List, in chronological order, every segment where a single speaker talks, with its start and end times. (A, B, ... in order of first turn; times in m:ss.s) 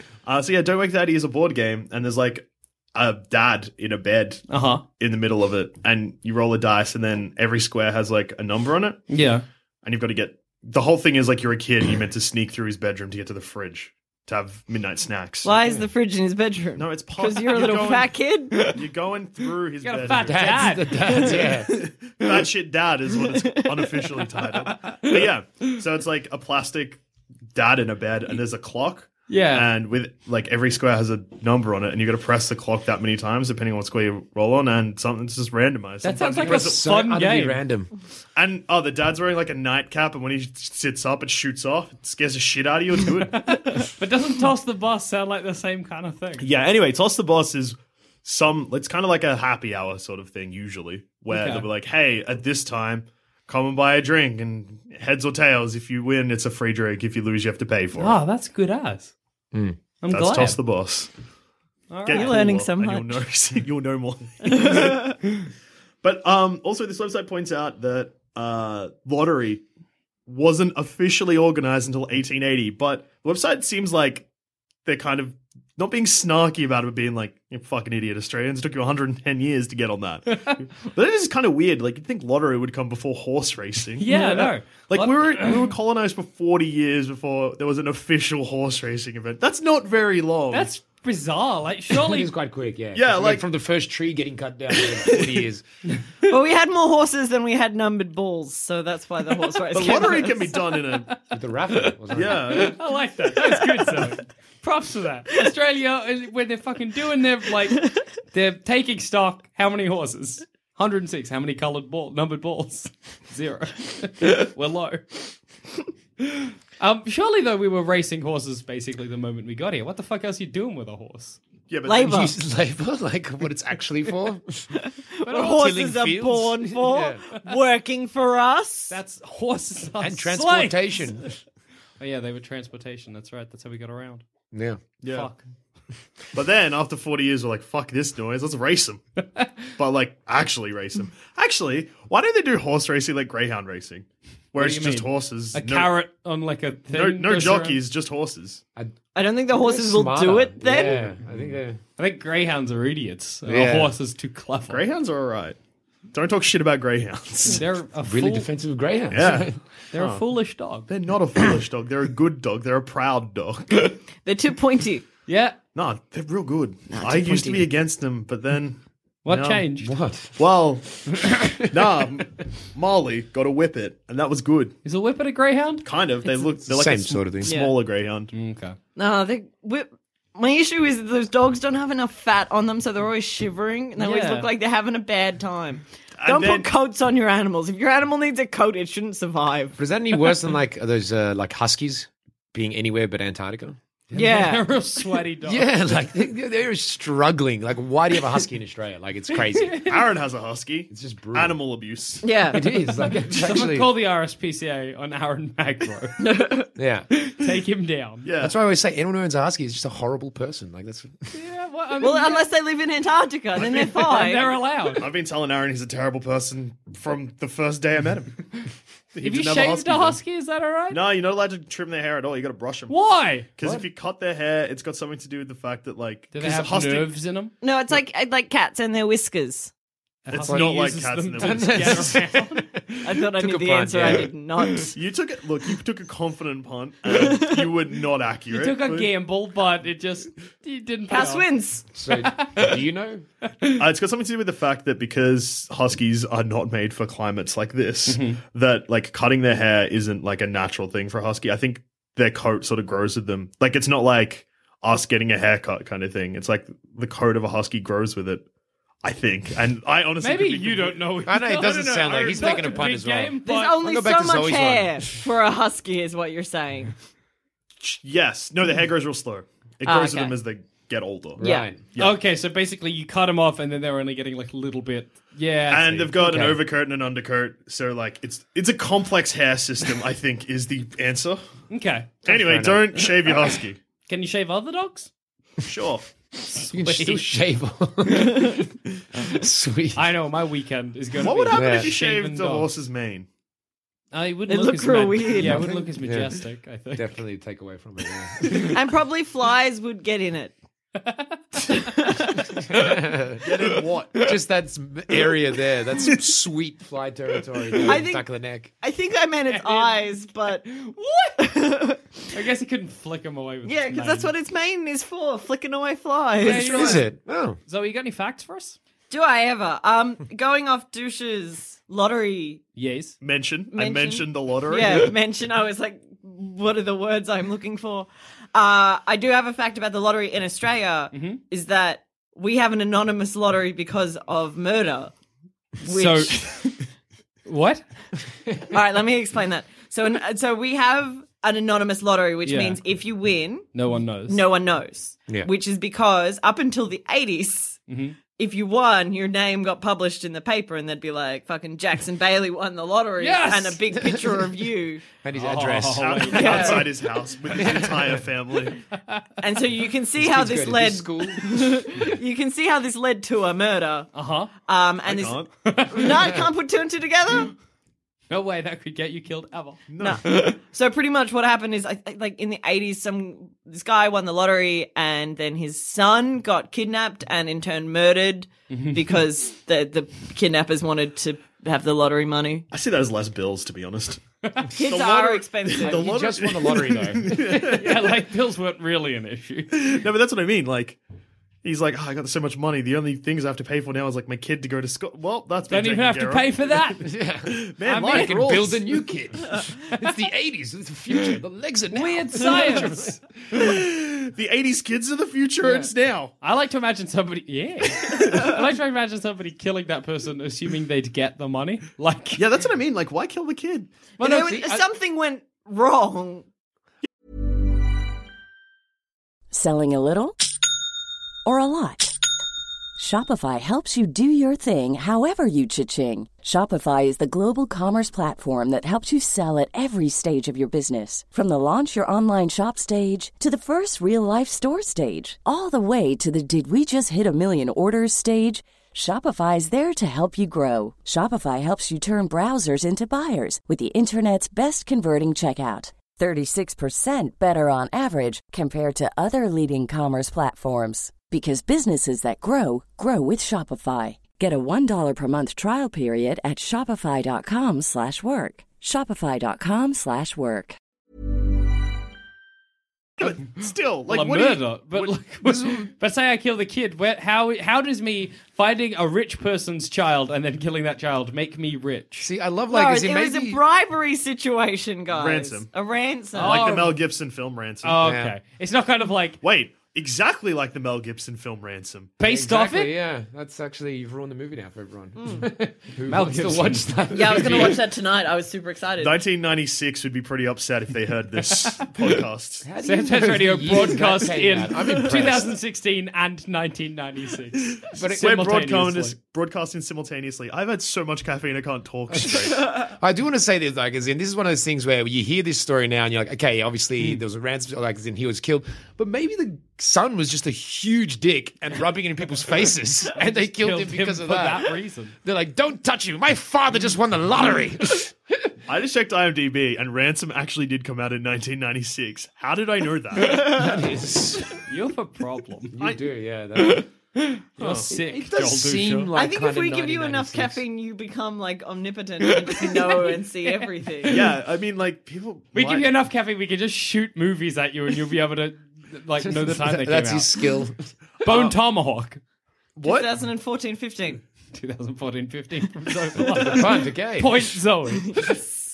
0:00.2-0:04.4 A
0:04.5-0:04.8 B
0:05.0-0:09.0 A
0:09.1-0:09.4 B
0:09.8-0:15.5 A
0:15.4-0:18.8 C
0:16.8-0:27.0 A
0:19.8-0:21.6 B
0:20.1-0:21.8 D
0:23.4-0:24.0 C
0:24.7-0:25.2 B
0:27.5-0:36.9 A
0:29.3-0:29.7 B
0:36.0-0:37.6 B
0:36.4-0:37.9 D
0:38.3-0:43.4 A
0:43.3-0:46.4 B
0:46.4-0:58.2 A
0:51.3-0:51.7 B
0:57.9-0:59.1 B
0:59.5-0:59.8 D
1:00.0-1:00.6 B
1:00.1-1:01.1 A
1:01.9-1:02.5 B
1:02.0-1:05.0 A
1:02.1-1:03.2 C
1:04.4-1:05.2 C
1:06.0-1:09.6 A
1:10.3-1:14.3 A
1:14.8-1:30.7 A
1:20.3-1:20.6 B
1:24.0-1:25.7 B
1:30.5-1:32.3 B
1:31.9-1:35.6 D
1:32.9-1:33.4 A
1:36.2-1:40.5 C
1:39.7-1:41.1 A
1:41.3-1:42.7 D
1:41.7-1:55.4 B
1:42.1-1:42.8 A
1:43.4-1:44.1 C
1:56.2-2:01.4 B
2:01.7-2:02.2 A
2:01.8-2:02.3 C
2:02.0-2:04.7 D
2:04.8-2:09.0 C
2:05.3-2:07.2 D
2:08.9-2:11.1 B
2:10.0-2:11.4 D
2:12.0-2:14.2 B
2:14.5-2:14.8 D
2:15.0-2:15.3 A
2:15.1-2:15.4 B
2:16.3-2:19.0 A
2:19.8-2:25.9 A
2:24.6-2:27.8 B
2:26.9-2:28.6 A
2:29.1-2:31.1 C
2:29.5-2:31.8 D
2:32.0-2:34.8 B
2:33.4-2:33.9 D
2:34.7-2:35.6 A
2:36.1-2:37.6 A
2:37.4-2:38.5 B
2:38.0-2:39.6 D
2:39.1-2:40.2 A
2:39.9-2:40.9 B
2:40.9-2:43.9 A
2:44.2-2:45.0 C
2:45.3-2:45.6 B
2:45.7-2:49.6 A
2:46.9-2:47.7 C
2:49.2-2:49.9 B
2:49.8-2:50.4 D
2:50.4-2:54.7 A
2:51.4-2:51.6 D
2:54.8-2:55.8 B
2:55.8-2:58.3 A
2:56.6-2:57.5 D
2:57.4-2:57.7 C
2:58.3-2:58.8 B
2:59.0-3:09.8 C
3:04.0-3:04.5 B
3:06.2-3:06.7 A
3:09.8-3:14.4 D
3:14.1-3:14.7 C
3:14.1-3:15.7 B
3:15.4-3:19.8 D
3:19.3-3:20.0 B
3:19.8-3:22.3 A
3:20.9-3:21.6 D
3:22.2-3:22.9 C
3:22.5-3:23.9 D
3:23.0-3:26.2 B
3:26.2-3:26.7 C
3:26.8-3:27.1 D
3:27.1-3:28.2 B
3:28.2-3:28.6 A
3:28.4-3:31.3 D
3:31.3-3:32.5 B
3:32.0-3:34.6 C
3:33.6-3:33.8 A
3:33.6-3:35.1 B
3:34.9-3:38.4 A
3:39.1-3:40.2 A
3:39.2-3:41.0 B
3:40.9-3:42.9 A
3:42.9-3:43.6 B
3:43.6-3:47.1 A
3:46.3-3:47.5 B
3:47.6-3:49.7 C
3:50.2-3:52.7 B
3:50.3-3:54.3 D
3:50.3-3:52.2 A
3:53.0-3:55.0 C
3:54.9-3:59.1 A
3:57.1-3:57.7 C
3:58.5-4:01.5 B
4:01.1-4:01.8 C
4:01.9-4:03.2 D
4:02.0-4:02.8 B
4:03.4-4:03.8 B
4:03.8-4:18.4 A
4:08.1-4:08.4 B
4:19.0-4:21.0 A
4:20.2-4:23.8 B
4:21.2-4:25.1 D
4:22.0-4:22.8 A
4:23.4-4:26.9 C
4:27.8-4:31.4 A
4:29.8-4:30.4 C
4:31.4-4:31.8 D
4:31.4-4:31.7 C
4:31.9-4:32.2 A
4:32.0-4:36.1 B
4:35.7-4:41.4 A
4:36.1-4:36.6 D
4:41.7-4:42.2 B
4:42.2-4:43.8 A
4:42.2-4:43.3 D
4:44.1-4:45.1 B
4:45.6-4:46.1 A
4:46.4-4:47.3 B
4:46.7-4:50.1 D
4:49.9-4:52.7 B
4:51.2-4:53.3 A
4:51.5-4:51.9 D
4:54.1-4:57.2 B
4:54.5-4:55.7 C
4:55.3-4:56.4 D
4:56.9-4:58.8 D
4:58.7-5:00.5 C
5:01.0-5:02.2 B
5:01.7-5:02.5 C
5:02.7-5:03.4 D
5:02.7-5:03.0 B
5:03.4-5:04.2 A
5:04.2-5:08.7 D
5:07.7-5:08.0 B
5:07.8-5:08.3 C
5:08.8-5:10.6 C
5:09.5-5:11.4 B
5:11.4-5:12.2 C
5:12.3-5:14.3 B
5:13.6-5:17.0 C
5:16.4-5:17.1 B
5:16.4-5:17.6 D
5:17.7-5:18.8 B
5:19.1-5:22.6 C
5:22.8-5:23.2 B
5:23.2-5:25.1 A
5:23.7-5:35.1 C
5:31.1-5:31.4 B
5:35.8-5:36.7 C
5:35.8-5:36.7 B
5:37.4-5:37.8 B
5:38.7-5:43.7 C
5:42.4-5:42.8 B
5:43.7-5:44.4 B
5:44.3-5:47.8 C
5:47.9-5:48.2 B
5:48.3-5:55.0 C
5:53.2-5:53.8 B
5:54.0-5:54.4 D
5:55.2-5:56.8 D
5:55.3-5:56.9 B
5:55.9-5:58.8 A
5:56.3-5:56.8 C
5:57.5-5:58.2 D
5:58.9-5:59.2 B
5:59.4-6:04.1 C
6:00.2-6:01.9 D
6:04.1-6:04.5 B
6:04.6-6:07.5 C
6:05.0-6:05.5 A
6:05.6-6:06.5 B
6:08.3-6:10.5 B
6:09.9-6:10.2 A
6:10.0-6:22.6 C
6:18.7-6:19.2 B
6:22.7-6:24.2 A
6:24.4-6:24.7 B
6:24.7-6:26.1 C
6:24.8-6:28.1 A
6:25.7-6:27.9 D
6:27.6-6:30.0 B
6:29.7-6:31.0 A
6:31.6-6:36.9 A
6:35.7-6:37.1 B
6:37.0-6:43.2 D
6:37.5-6:38.8 A
6:37.8-6:38.8 B
6:41.9-6:43.2 B
6:43.5-6:46.3 A
6:45.6-6:45.9 D
6:46.4-6:52.5 B
6:52.4-6:53.9 A
6:54.2-6:56.4 C
6:54.2-6:54.8 B
6:54.2-6:54.8 D
6:59.5-7:00.4 E
7:01.4-7:02.1 E
7:03.0-7:40.8 E
7:43.2-7:45.2 A
7:44.1-7:52.3 B
7:45.4-7:45.9 D
7:52.2-7:53.6 D
7:52.7-7:56.7 C
7:55.1-7:55.7 A
7:56.3-7:57.0 B
7:56.4-7:58.0 A
7:57.8-7:59.4 B
7:58.0-7:58.4 D
7:59.4-8:02.1 A
8:02.2-8:02.9 B
8:02.2-8:07.8 D
8:05.2-8:05.5 C
8:06.1-8:07.8 B
8:07.1-8:09.2 C
8:09.0-8:12.7 A
8:12.6-8:15.6 D
8:12.8-8:19.2 B
8:17.9-8:18.4 D
8:18.2-8:22.6 A
8:22.1-8:38.5 D
8:33.2-8:35.1 B
8:38.7-8:43.6 A
8:43.3-8:44.6 D
8:44.6-8:45.7 B
8:45.7-8:46.9 D
8:46.6-8:49.1 B
8:47.6-8:47.9 A
8:47.9-8:50.6 D
8:49.1-8:54.3 C
8:52.2-8:54.2 B
8:54.0-8:55.9 A
8:55.5-9:00.3 B
8:59.2-9:00.9 D
9:01.2-9:02.2 B
9:01.2-9:01.6 A
9:02.8-9:03.1 A
9:02.8-9:04.2 C
9:04.5-9:08.2 B
9:06.4-9:07.5 D
9:08.0-9:08.5 C